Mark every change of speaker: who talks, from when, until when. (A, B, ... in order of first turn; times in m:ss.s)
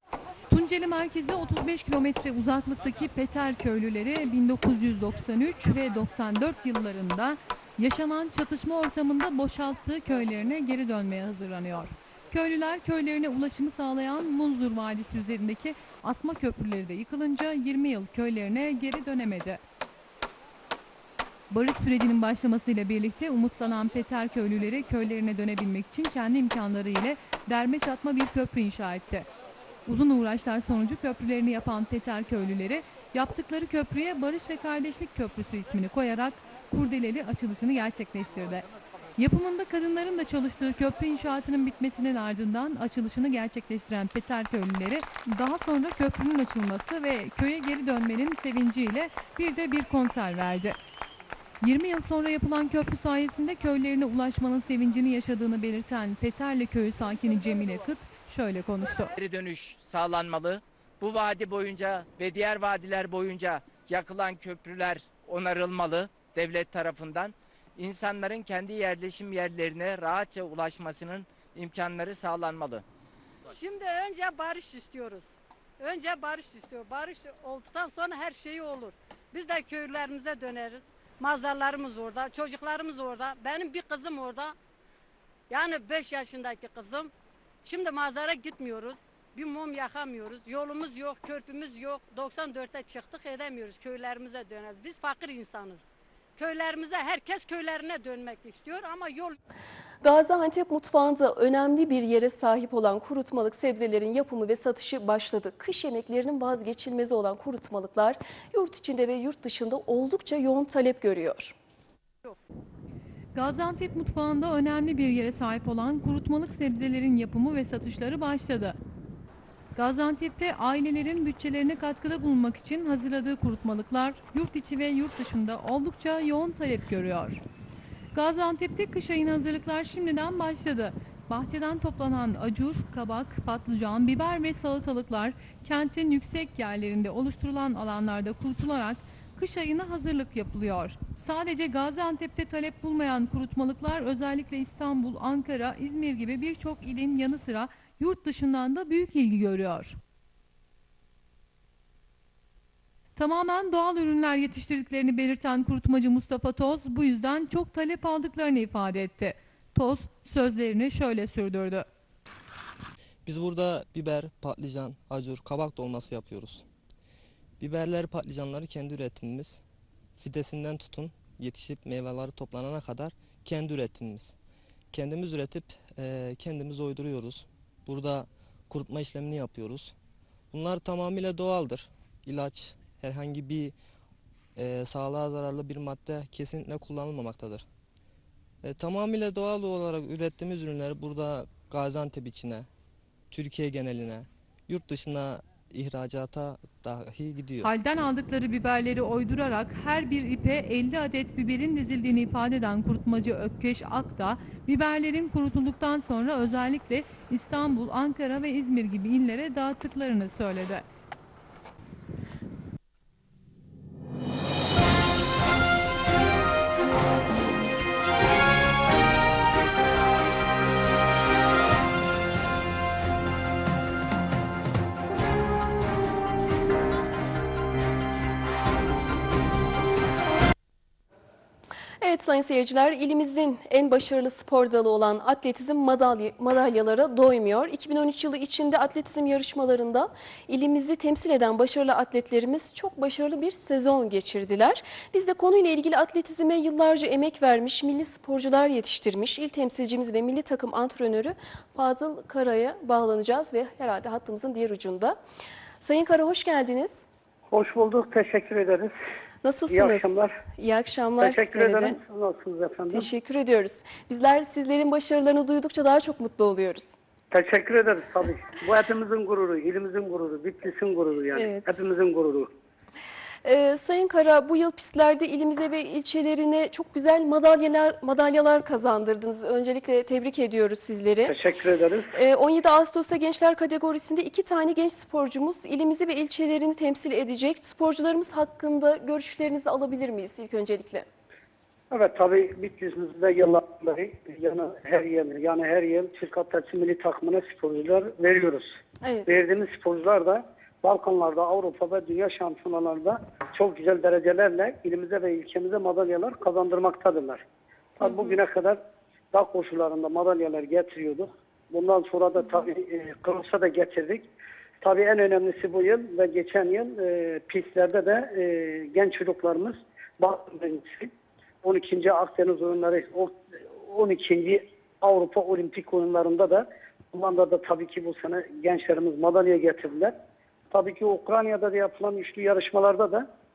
0:00.5-0:19.6 A
0:21.5-0:29.2 A
0:29.9-0:38.6 A
0:39.2-0:50.8 A
0:51.6-0:59.1 A
0:59.2-1:12.8 B
1:13.5-1:24.5 C
1:25.5-1:27.1 C
1:27.6-1:35.8 C
1:36.4-1:39.4 C
1:40.0-1:51.5 D
1:53.3-1:58.8 A
1:59.7-2:07.4 A
2:08.1-2:30.0 A
2:33.2-2:41.8 A
2:43.2-2:46.6 E
2:47.6-2:49.6 E
2:50.2-2:54.3 E
2:54.9-2:59.9 E
3:00.5-3:03.7 E
3:04.6-3:07.6 E
3:08.6-3:12.7 E
3:13.3-3:17.7 E
3:17.6-3:30.8 A
3:52.0-4:15.2 D
4:15.8-4:17.0 D
4:17.5-4:19.0 F
4:19.4-4:22.0 D
4:19.7-4:20.4 F
4:21.2-4:23.1 F
4:22.9-4:27.0 D
4:27.3-4:32.5 F
4:31.3-4:31.8 D
4:33.4-4:41.4 D
4:41.3-4:42.1 F
4:42.1-4:51.0 D
4:51.9-4:58.7 F
4:59.0-4:59.4 D
4:59.3-5:07.4 F
5:08.0-5:08.8 F
5:08.0-5:08.4 D
5:09.3-5:14.2 F
5:14.8-5:21.1 F
5:21.6-5:30.1 F
5:30.7-5:33.2 F